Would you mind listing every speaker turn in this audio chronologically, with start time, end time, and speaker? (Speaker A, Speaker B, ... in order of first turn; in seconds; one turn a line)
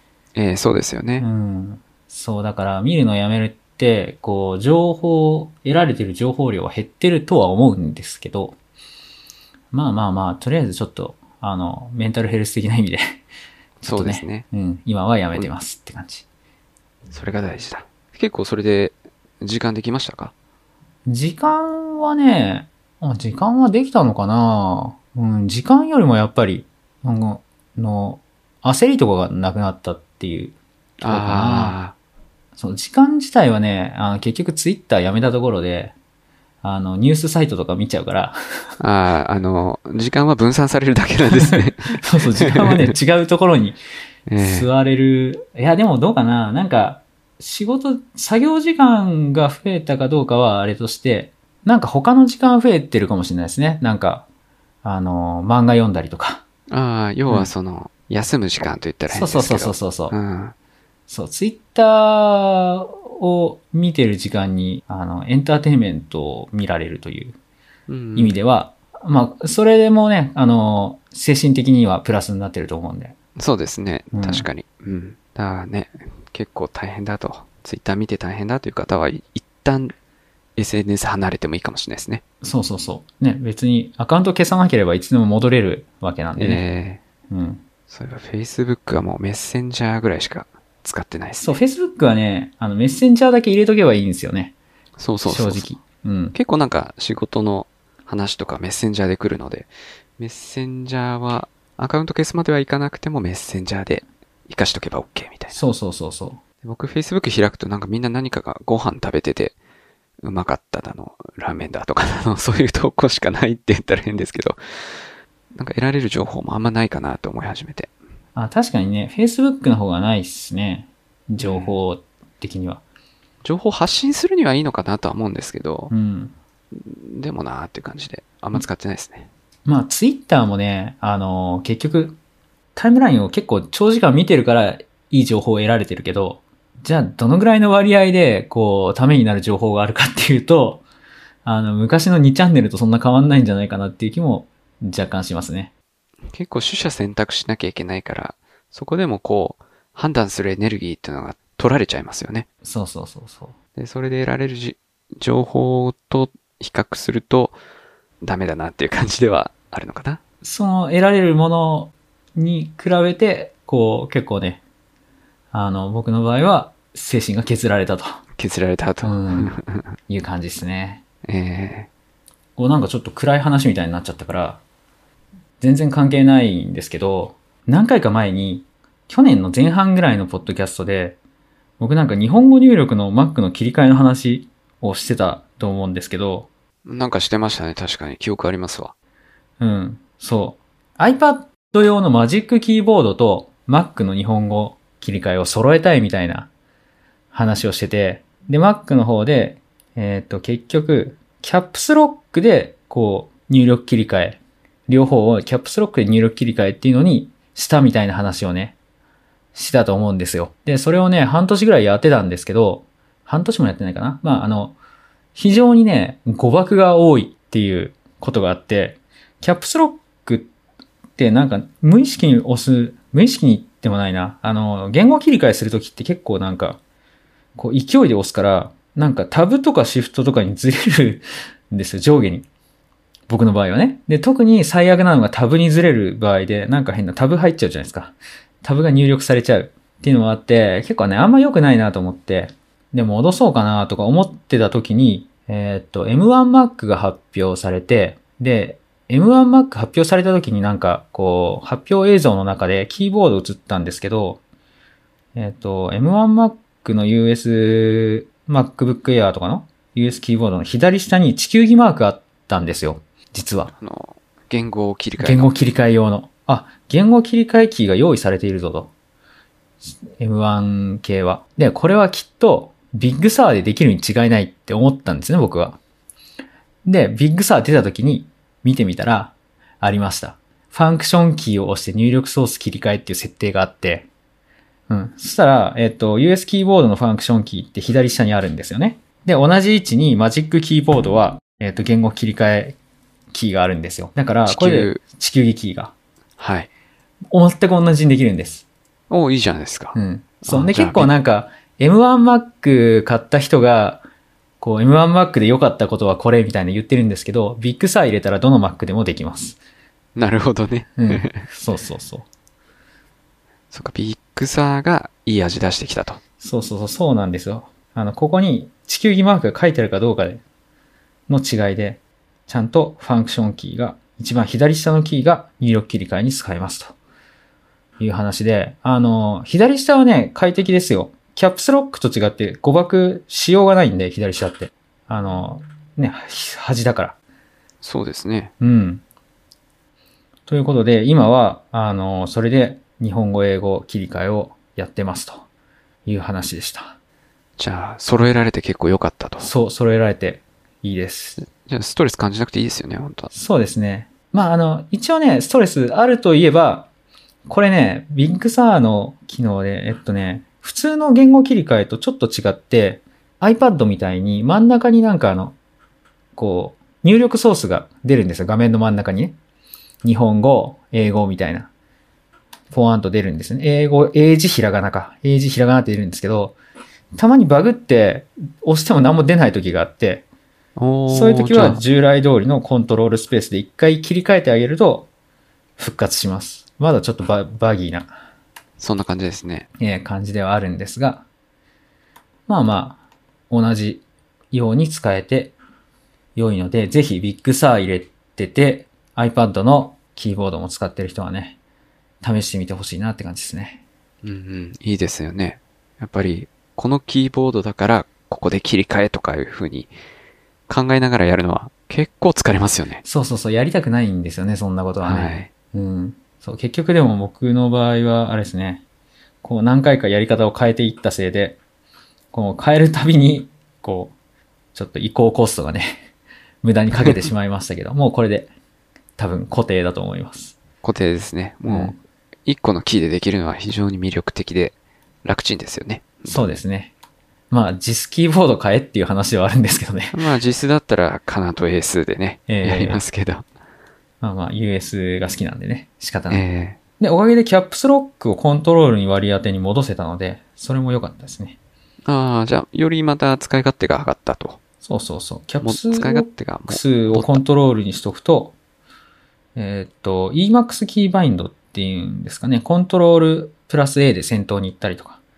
Speaker A: 0.3-1.2
Speaker B: 1.2-8.6
Speaker B: 9.7-13.2
Speaker A: 13.8-14.4
Speaker B: 13.8-16.2
Speaker A: 17.1-20.3
Speaker B: 21.1-30.5
Speaker A: 31.0-31.9
Speaker B: 31.1-31.8
Speaker B: 32.5-35.9
Speaker B: 36.6-38.4
Speaker A: 38.8-43.0
Speaker B: 41.3-43.8
Speaker A: 44.3-44.7
Speaker B: 44.4-54.2
Speaker B: 54.8-56.4
Speaker A: 56.7-60.5
Speaker B: 59.1-60.1
Speaker B: 61.1-67.4
Speaker A: 67.9-68.4
Speaker B: 68.1-73.2
Speaker A: 73.3-79.9
Speaker B: 74.1-74.5
Speaker A: 80.5-82.2
Speaker B: 82.4-86.6
Speaker A: 86.4-87.0
Speaker B: 87.3-87.6
Speaker A: 87.9-91.6
Speaker B: 91.4-94.5
Speaker A: 95.0-95.7
Speaker B: 95.2-96.3
Speaker A: 96.3-105.6
Speaker B: 105.5-106.4
Speaker A: 106.6-109.5
Speaker A: 110.2-115.0
Speaker A: 115.5-117.9
Speaker B: 118.3-122.8
Speaker A: 121.4-121.8
Speaker A: 123.4-125.9
Speaker B: 125.9-126.3
Speaker A: 126.7-129.3
Speaker B: 129.7-132.2
Speaker B: 132.7-140.8
Speaker B: 141.4-145.7
Speaker A: 146.3-152.4
Speaker B: 152.6-153.5
Speaker A: 153.8-157.6
Speaker A: 158.2-160.2
Speaker B: 160.4-164.6
Speaker B: 165.5-168.2
Speaker A: 168.4-169.9
Speaker B: 169.0-169.6
Speaker B: 170.1-171.0
Speaker A: 171.2-171.9
Speaker B: 172.6-174.6
Speaker B: 175.6-181.2
Speaker B: 181.8-186.5
Speaker A: 186.8-188.9
Speaker B: 189.6-196.5
Speaker B: 197.3-208.7
Speaker B: 209.5-214.8
Speaker B: 215.3-220.5
Speaker B: 221.2-226.8
Speaker B: 227.6-232.5
Speaker B: 233.3-254.4
Speaker B: 255.3-263.7
Speaker A: 263.7-265.5
Speaker B: 265.2-268.9
Speaker B: 270.0-275.8
Speaker B: 276.8-284.1
Speaker B: 284.9-292.8
Speaker B: 293.3-295.9
Speaker A: 294.4-295.0
Speaker A: 296.4-296.7
Speaker B: 297.3-298.6
Speaker A: 299.1-301.1
Speaker B: 299.9-304.0
Speaker B: 304.6-309.6
Speaker A: 310.1-311.4
Speaker B: 311.0-312.2
Speaker A: 313.7-316.2
Speaker B: 316.4-320.4
Speaker B: 321.3-326.9
Speaker B: 328.0-337.2
Speaker A: 337.8-338.5
Speaker B: 338.6-339.0
Speaker B: 340.5-345.4
Speaker B: 346.1-346.9
Speaker A: 347.6-349.5
Speaker B: 349.4-351.4
Speaker A: 351.4-353.3
Speaker B: 353.3-356.9
Speaker B: 357.4-365.6
Speaker B: 366.3-369.4
Speaker B: 370.0-371.7
Speaker B: 372.7-376.6
Speaker B: 377.1-380.2
Speaker A: 380.8-381.8
Speaker B: 381.1-385.1
Speaker B: 385.8-388.1
Speaker A: 388.8-389.7
Speaker B: 389.8-391.2
Speaker B: 392.5-395.5
Speaker B: 396.4-401.6
Speaker B: 402.2-403.8
Speaker A: 404.2-409.9
Speaker A: 410.7-413.0
Speaker B: 413.0-418.8
Speaker A: 415.0-415.5
Speaker B: 419.4-421.6
Speaker B: 422.3-424.1
Speaker B: 424.7-426.1
Speaker B: 426.6-428.5
Speaker B: 429.2-430.6
Speaker A: 430.8-436.5
Speaker B: 431.7-431.9
Speaker B: 436.3-436.9
Speaker B: 437.5-440.2
Speaker A: 440.1-443.4
Speaker B: 442.5-443.0
Speaker B: 444.2-446.4
Speaker A: 446.3-446.8
Speaker B: 447.0-451.6
Speaker A: 452.0-454.6
Speaker B: 454.8-458.5
Speaker A: 455.6-457.4
Speaker B: 459.6-465.2